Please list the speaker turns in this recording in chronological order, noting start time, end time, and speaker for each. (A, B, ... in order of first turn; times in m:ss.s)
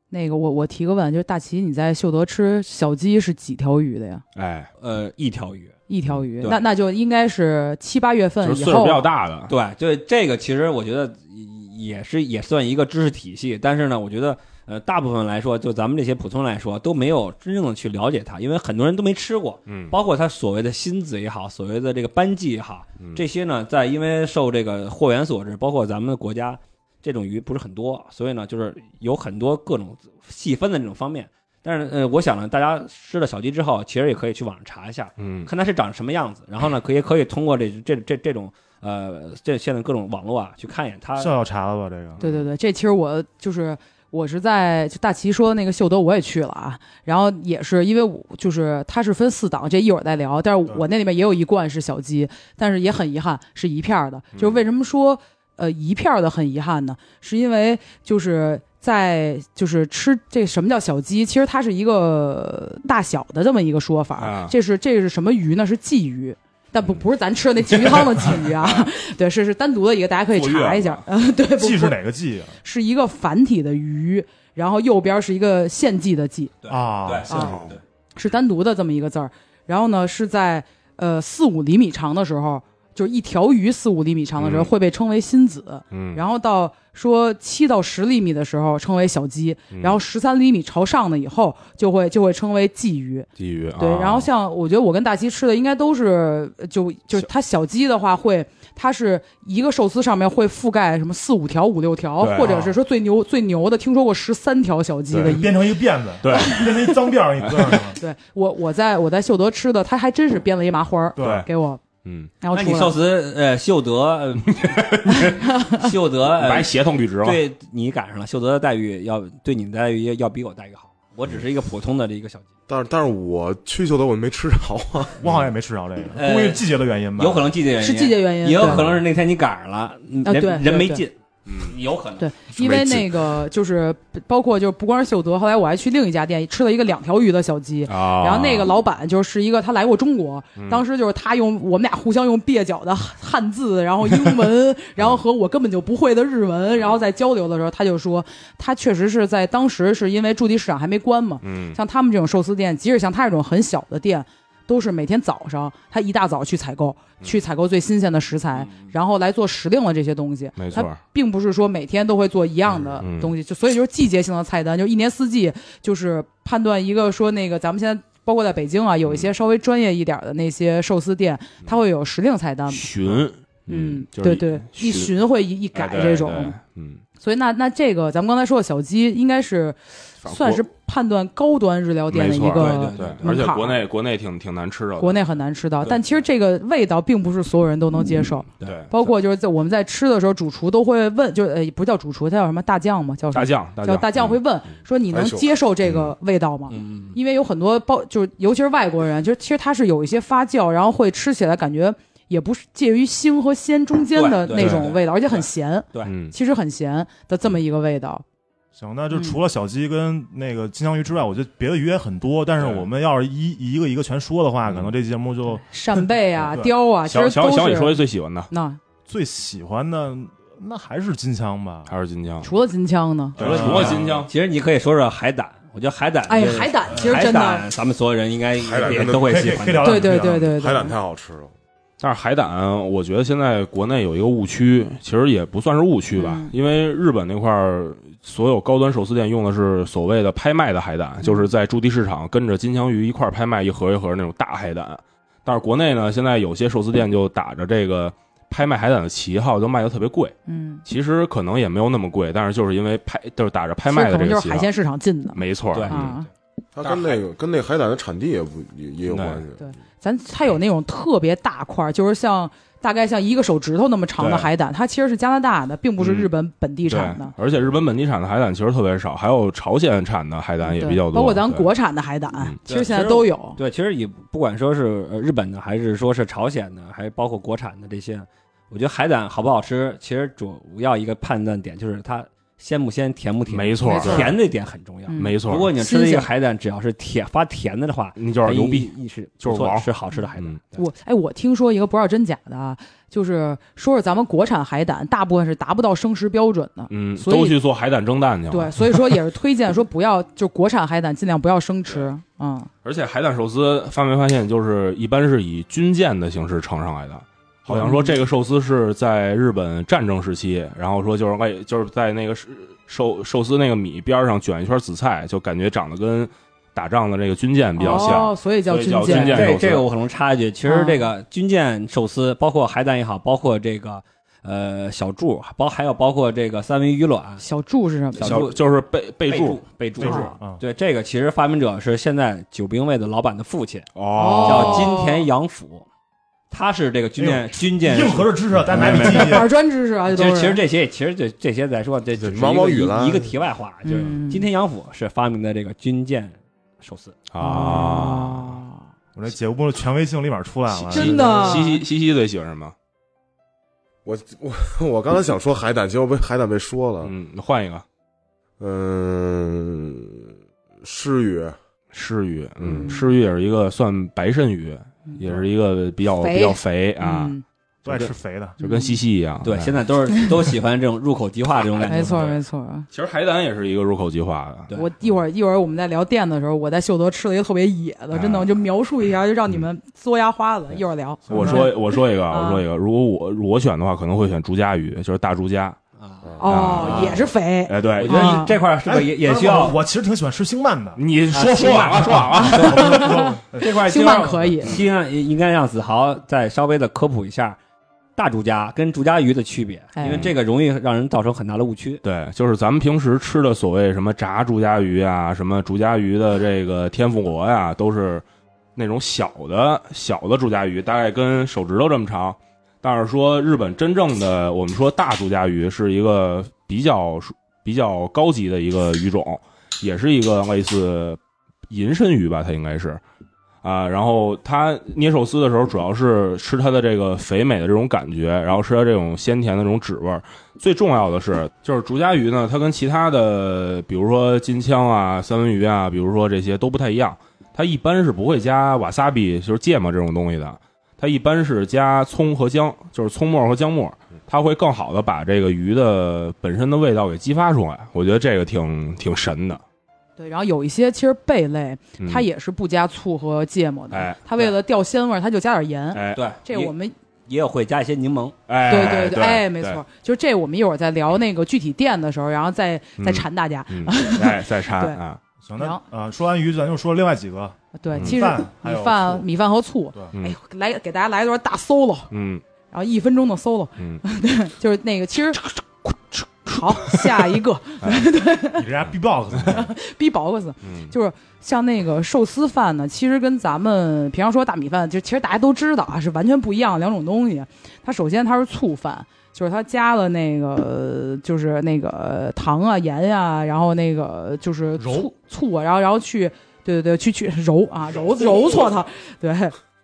0:00.1-0:04.2 A
0:04.4-0:04.7 B
0:04.8-0:05.7 C
0:05.9-0:09.1 A
0:08.4-0:09.5 B
0:09.5-0:41.3 C
0:19.7-0:19.9 B
0:35.2-0:35.5 B
0:41.2-0:42.2 D
0:42.2-0:42.4 B
0:42.2-1:12.0 A
0:54.4-0:54.6 B
1:04.2-1:04.5 B
1:07.7-1:08.9 B
1:10.3-1:11.0 B
1:11.6-1:12.6 D
1:12.6-1:16.5 A
1:16.6-1:17.8 C
1:16.7-1:17.6 D
1:17.3-1:45.5 A
1:24.4-1:24.7 B
1:25.9-1:26.2 B
1:29.7-1:30.0 B
1:33.4-1:34.3 B
1:42.2-1:42.6 B
1:42.4-1:42.7 D
1:45.1-1:45.4 B
1:45.2-1:48.0 D
1:46.2-1:46.6 B
1:46.3-1:46.8 A
1:48.0-1:51.8 A
1:51.2-1:51.4 D
1:51.2-1:51.5 B
1:52.0-1:52.3 B
1:52.4-1:53.0 A
1:52.5-1:54.8 C
1:54.5-1:55.4 B
1:55.1-1:55.9 A
1:55.8-1:56.7 C
1:56.3-1:57.4 B
1:57.2-2:02.4 C
2:02.7-2:05.2 E
2:05.2-2:07.5 D
2:05.2-2:05.5 B
2:06.1-2:06.6 C
2:07.2-2:12.3 C
2:07.8-2:09.0 A
2:08.6-2:08.9 B
2:10.2-2:11.0 A
2:11.4-2:11.7 B
2:12.2-2:56.6 A
2:12.5-2:13.1 E
2:17.8-2:18.7 B
2:20.6-2:20.8 B
2:31.4-2:31.8 B
2:38.6-2:38.9 C
2:40.6-2:41.0 B
2:43.0-2:43.3 B
2:49.0-2:49.3 B
2:52.7-2:55.1 B
2:55.7-2:57.0 B
2:57.2-3:03.8 A
3:00.2-3:00.6 B
3:02.1-3:05.2 B
3:02.5-3:03.4 C
3:05.0-3:28.2 A
3:08.6-3:09.1 B
3:13.3-3:14.4 B
3:15.1-3:15.5 E
3:15.8-3:16.1 B
3:16.7-3:17.2 C
3:24.1-3:25.0 C
3:24.5-3:24.9 B
3:26.0-3:26.3 B
3:28.7-3:36.7 D
3:29.1-3:29.4 A
3:32.6-3:32.9 B
3:34.6-3:34.9 B
3:35.6-3:38.8 A
3:37.0-3:38.5 B
3:39.0-3:41.9 D
3:41.9-3:42.5 B
3:42.4-3:43.8 A
3:43.4-3:44.3 B
3:43.4-3:44.1 D
3:43.5-3:44.1 E
3:43.6-3:50.0 C
3:46.2-3:47.7 A
3:48.6-3:51.5 E
3:48.9-3:50.5 D
3:49.8-3:50.9 A
3:52.0-4:14.7 B
3:56.1-3:56.5 A
4:01.2-4:01.5 A
4:10.5-4:10.8 A
4:13.9-4:16.3 A
4:15.3-4:16.2 B
4:15.7-4:16.1 C
4:16.8-4:19.6 E
4:16.8-4:17.1 C
4:19.1-4:19.4 B
4:19.6-4:27.3 A
4:24.2-4:24.5 B
4:26.0-4:26.3 B
4:26.8-4:31.7 B
4:30.6-4:33.6 A
4:32.7-4:50.8 C
4:43.5-4:44.3 B
4:43.8-4:44.4 A
4:45.1-4:46.3 A
4:45.2-4:45.7 B
4:48.2-4:50.6 B
4:50.7-4:57.6 A
4:56.9-4:59.0 B
4:58.5-5:02.7 A
5:02.8-5:19.9 B
5:07.7-5:08.2 A
5:17.8-5:19.5 A
5:17.8-5:18.2 C
5:19.1-5:27.4 C
5:20.6-5:21.1 A
5:27.4-5:28.4 A
5:28.1-5:28.6 C
5:28.2-5:30.3 B
5:29.3-5:35.8 C
5:30.0-5:30.6 D
5:30.0-5:30.3 A
5:34.0-5:34.9 B
5:34.1-5:35.2 A
5:36.5-5:39.4 C
5:37.2-5:39.5 D
5:38.7-5:39.2 B
5:39.0-5:40.6 A
5:40.1-5:47.2 C
5:42.2-5:43.3 E
5:43.8-5:44.5 A
5:47.3-5:48.6 B
5:47.4-5:48.8 A
5:49.1-5:51.4 D
5:50.9-5:51.8 A
5:50.9-5:52.7 B
5:54.0-5:57.1 E
5:57.0-5:57.8 B
5:58.6-6:00.3 E
6:00.8-6:01.6 E
6:01.9-6:07.3 B
6:02.6-6:02.9 E
6:06.2-6:07.4 A
6:07.8-6:08.6 D
6:07.8-6:09.8 B
6:08.6-6:09.0 A
6:09.4-6:12.3 C
6:11.8-6:12.4 B
6:11.9-6:12.9 A
6:12.9-6:14.7 B
6:14.7-6:22.6 A
6:18.1-6:18.5 B
6:21.3-6:25.8 B
6:26.0-6:27.3 C
6:26.4-6:28.6 A
6:26.4-6:28.4 B
6:28.0-6:29.8 C
6:28.8-6:34.6 D
6:31.0-6:33.0 B
6:31.3-6:32.8 C
6:32.3-6:34.8 A
6:33.6-6:37.6 C
6:38.2-6:42.0 C
6:40.0-6:40.3 A
6:40.0-6:40.3 B
6:42.0-7:03.0 B
7:03.6-7:29.6 B
7:30.2-7:36.9 A
7:32.0-7:32.2 B
7:33.9-7:34.3 B
7:35.9-7:36.2 B
7:36.1-7:36.7 C
7:37.3-7:38.4 C
7:38.5-7:39.8 B
7:38.7-7:45.0 A
7:43.0-7:45.2 B
7:45.4-7:49.2 D
7:47.8-7:52.1 A
7:47.9-7:48.2 B
7:52.1-7:52.4 B
7:52.7-7:58.7 A
7:58.5-7:59.7 D
7:59.4-8:19.5 A
8:00.6-8:00.9 B
8:14.8-8:15.1 D